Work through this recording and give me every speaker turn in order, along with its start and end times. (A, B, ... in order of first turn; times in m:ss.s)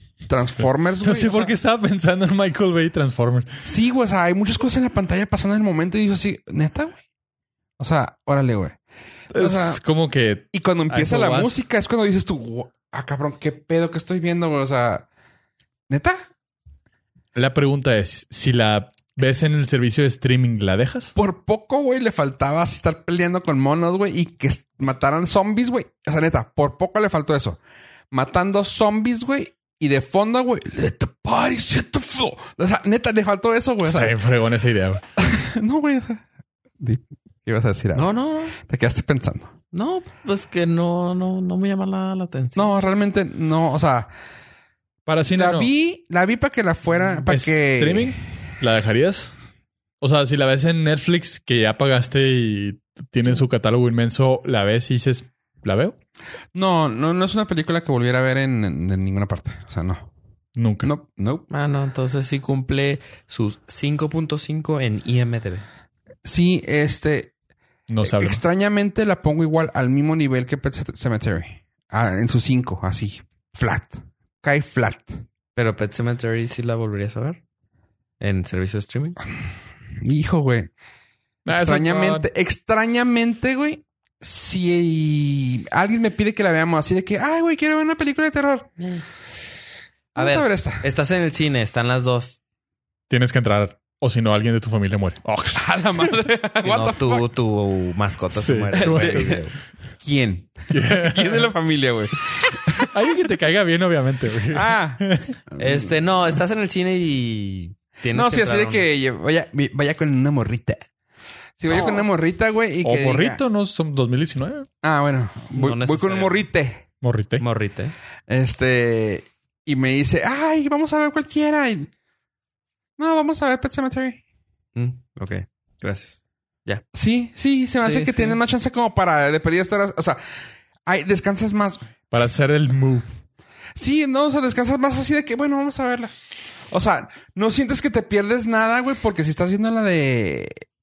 0:00.3-0:01.5 A
0:01.0-0:03.5 B
0:03.6-0:07.0 A
0:07.8-0:08.8 A
0:09.3-0:11.6 B
0:09.4-0:09.8 A
0:10.5-0:15.1 A
0:15.9-0:16.3 A
0:17.4-0:21.1 B
0:21.2-0:27.6 A
0:28.1-0:34.2 A
0:33.9-0:35.0 B
0:35.2-0:36.2 A
0:36.8-0:39.5 A
0:38.0-0:38.6 C
0:39.7-0:42.7 C
0:42.6-0:44.1 A
0:45.1-0:45.7 B
0:45.3-0:48.2 A
0:47.2-0:49.3 B
0:50.0-0:56.0 B
0:56.5-1:00.1 A
1:00.6-1:00.9 B
1:00.8-1:01.5 A
1:01.5-1:05.7 C
1:06.2-1:07.3 A
1:07.9-1:08.4 B
1:08.0-1:15.2 A
1:15.6-1:17.4 C
1:18.2-1:19.2 C
1:20.0-1:20.7 A
1:21.5-1:22.3 B
1:21.5-1:28.7 A
1:30.2-1:30.9 A
1:30.2-1:32.4 C
1:33.1-1:36.1 B
1:35.5-1:37.2 A
1:36.6-1:39.5 C
1:38.3-1:39.4 B
1:38.8-1:39.4 A
1:40.0-1:42.9 A
1:40.7-1:41.5 B
1:42.8-1:45.4 B
1:44.5-1:45.9 A
1:45.6-1:48.9 C
1:48.1-1:50.8 A
1:51.6-1:53.4 A
1:52.8-1:54.7 B
1:54.8-1:56.8 A
1:55.5-1:56.4 C
1:57.0-1:57.4 B
1:57.4-1:58.0 C
1:58.3-2:01.9 A
2:03.0-2:04.2 A
2:04.8-2:06.8 C
2:06.9-2:10.2 A
2:07.8-2:08.4 C
2:10.9-2:11.9 A
2:12.1-2:13.1 B
2:13.8-2:16.1 A
2:16.7-2:20.6 A